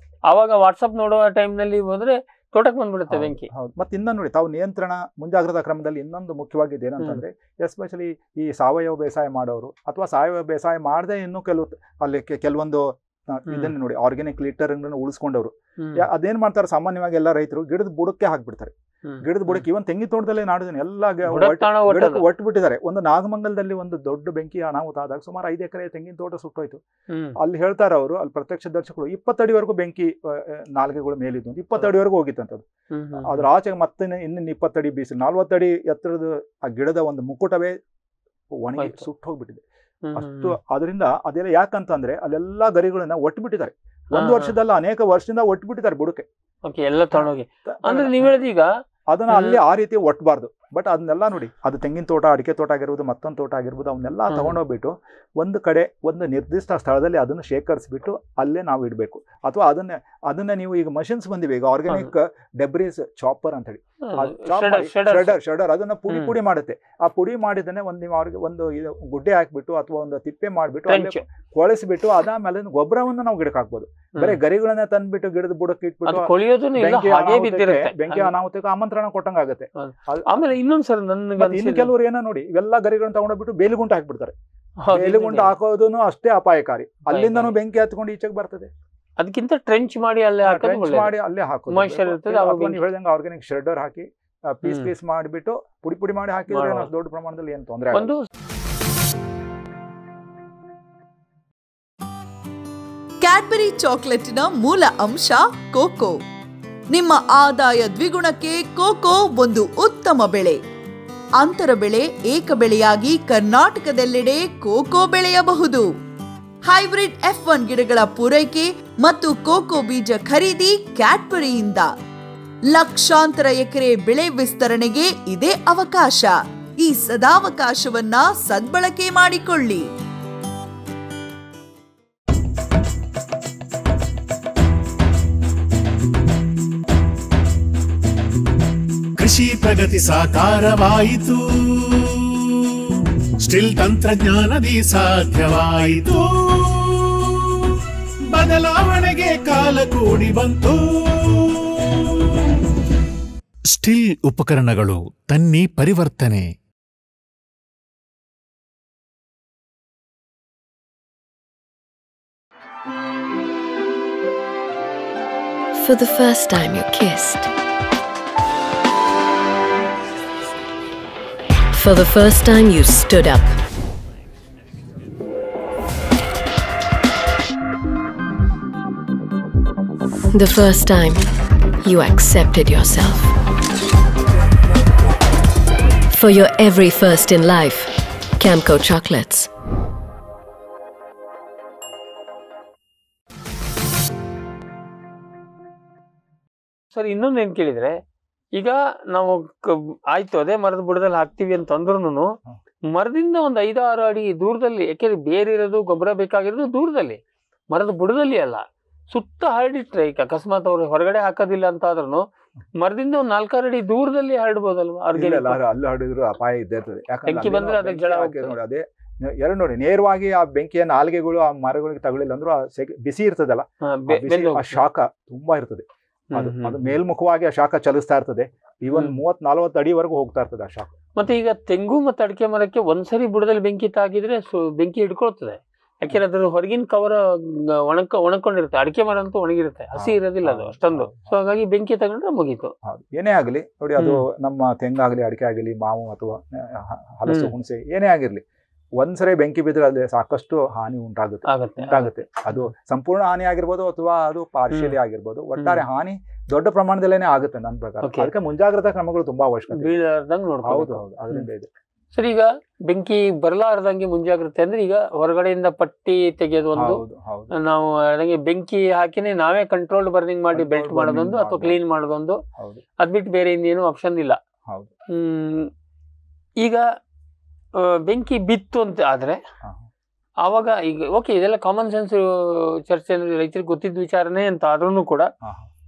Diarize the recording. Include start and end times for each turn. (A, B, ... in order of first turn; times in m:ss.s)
0:00.3-0:03.5 A
0:03.1-0:26.8 B
0:15.8-0:16.0 A
0:19.1-0:19.6 A
0:21.3-0:22.3 A
0:27.1-0:27.4 A
0:27.4-0:32.6 B
0:32.9-0:33.5 A
0:33.2-0:37.8 B
0:38.5-0:39.6 B
0:38.8-0:39.1 A
0:40.1-0:40.6 A
0:40.2-0:46.3 B
0:44.1-0:44.6 A
0:46.6-0:48.7 A
0:47.1-0:48.3 B
0:49.1-1:20.5 B
0:49.3-0:49.6 A
0:54.3-0:54.6 A
1:04.0-1:05.4 A
1:06.1-1:06.4 A
1:10.9-1:11.2 A
1:16.1-1:18.3 A
1:19.8-1:21.9 A
1:21.4-1:24.4 B
1:24.8-1:25.5 A
1:24.9-1:28.7 B
1:27.1-1:27.5 A
1:29.2-1:31.1 A
1:30.4-1:38.1 B
1:31.7-1:32.8 A
1:34.6-1:34.9 A
1:36.5-1:36.9 A
1:37.9-1:38.3 A
1:43.2-1:46.2 C
1:46.9-1:50.6 C
1:51.4-1:55.9 C
1:56.6-2:01.9 C
2:02.7-2:09.9 C
2:19.2-2:27.8 D
2:28.3-2:32.3 D
2:33.7-2:36.5 D
2:45.7-2:47.5 E
2:51.7-2:53.6 E
3:00.3-3:03.3 E
3:06.1-3:09.5 E
3:16.9-3:18.0 A
3:18.6-3:22.4 A
3:22.9-3:32.3 A
3:32.8-3:35.6 A
3:35.2-3:51.0 B
3:37.3-3:38.6 A
3:43.8-3:44.8 A
3:46.3-3:47.0 A
3:48.9-3:49.2 A
3:51.2-4:02.7 A
4:00.0-4:01.3 B
4:02.8-4:08.4 B
4:04.0-4:04.2 A
4:07.3-4:07.5 A
4:09.0-4:20.0 B
4:11.5-4:12.7 A
4:14.7-4:15.0 A
4:15.6-4:15.8 A
4:18.0-4:18.3 A
4:19.7-4:21.5 A
4:20.6-4:21.7 B
4:22.1-4:32.4 A
4:26.8-4:27.6 B
4:30.5-4:31.8 B
4:32.6-4:32.8 B
4:33.0-4:34.4 A
4:35.1-4:35.7 A
4:37.8-4:39.4 A
4:40.4-4:45.3 A
4:45.4-4:45.7 B